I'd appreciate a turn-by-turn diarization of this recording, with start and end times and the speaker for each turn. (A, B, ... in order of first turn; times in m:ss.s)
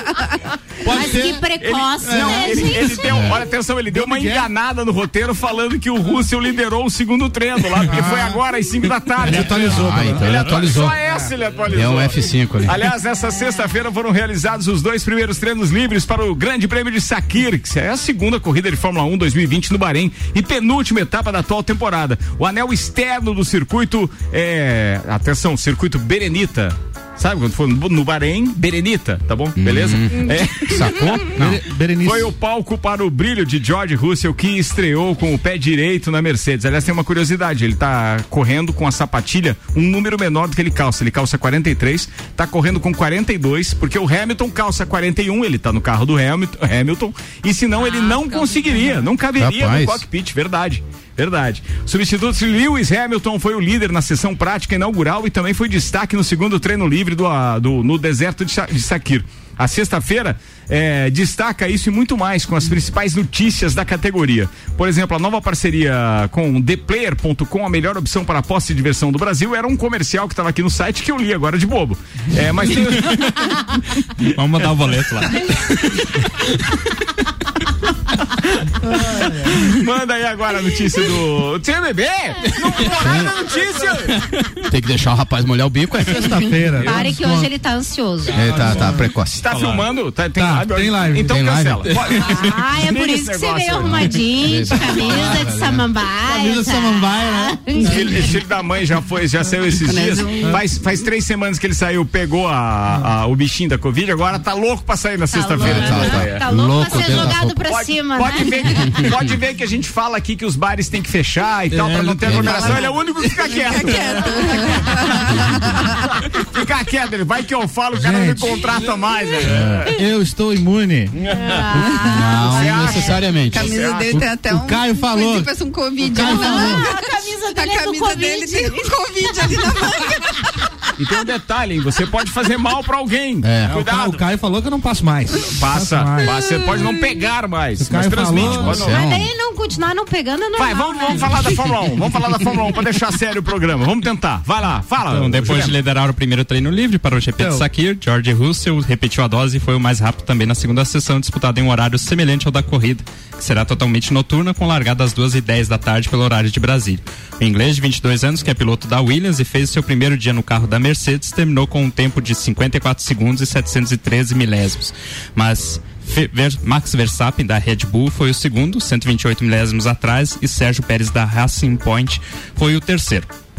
0:00.8-0:01.4 A
0:00.8-0:03.0 B
0:01.6-0:31.4 C
0:02.0-0:03.0 A
0:03.1-0:03.4 D
0:03.9-0:04.5 A
0:07.9-0:08.4 D
0:09.2-0:11.3 A
0:09.2-0:11.0 D
0:11.7-0:12.9 D
0:29.6-0:31.6 D
0:31.4-0:32.3 A
0:32.0-1:13.5 C
0:47.7-0:49.2 B
0:49.4-0:50.0 D
1:13.0-1:13.4 E
1:14.2-1:16.1 E
1:18.3-1:24.2 C
1:19.1-1:19.5 A
1:22.9-1:23.4 D
1:24.6-1:26.9 D
1:26.1-1:27.5 A
1:26.8-1:28.5 B
1:28.3-1:29.6 D
1:28.4-1:29.0 A
1:29.4-1:34.2 C
1:30.4-1:31.4 A
1:31.1-1:32.1 D
1:32.1-1:38.3 B
1:33.8-1:35.9 D
1:34.9-1:35.2 C
1:36.3-1:38.2 A
1:37.8-1:46.4 C
1:39.8-1:40.6 F
1:45.3-1:48.8 B
1:45.6-1:47.6 D
1:47.2-1:55.4 C
1:51.8-1:52.9 D
1:52.6-1:52.8 B
1:53.4-1:55.9 F
1:56.1-2:00.0 C
1:58.0-1:58.6 A
1:59.5-1:59.8 D
1:59.9-2:01.2 A
2:01.3-2:03.3 B
2:01.7-2:02.6 F
2:02.0-2:03.8 D
2:02.4-2:04.2 C
2:03.3-2:10.6 F
2:04.1-2:06.8 A
2:06.2-2:09.6 B
2:11.0-2:14.2 C
2:13.4-2:13.8 D
2:13.7-2:16.4 A
2:15.6-2:19.0 C
2:17.8-2:18.9 A
2:18.4-2:19.3 D
2:18.8-2:21.6 B
2:20.6-2:25.8 C
2:25.1-2:53.3 E
2:27.4-2:27.6 A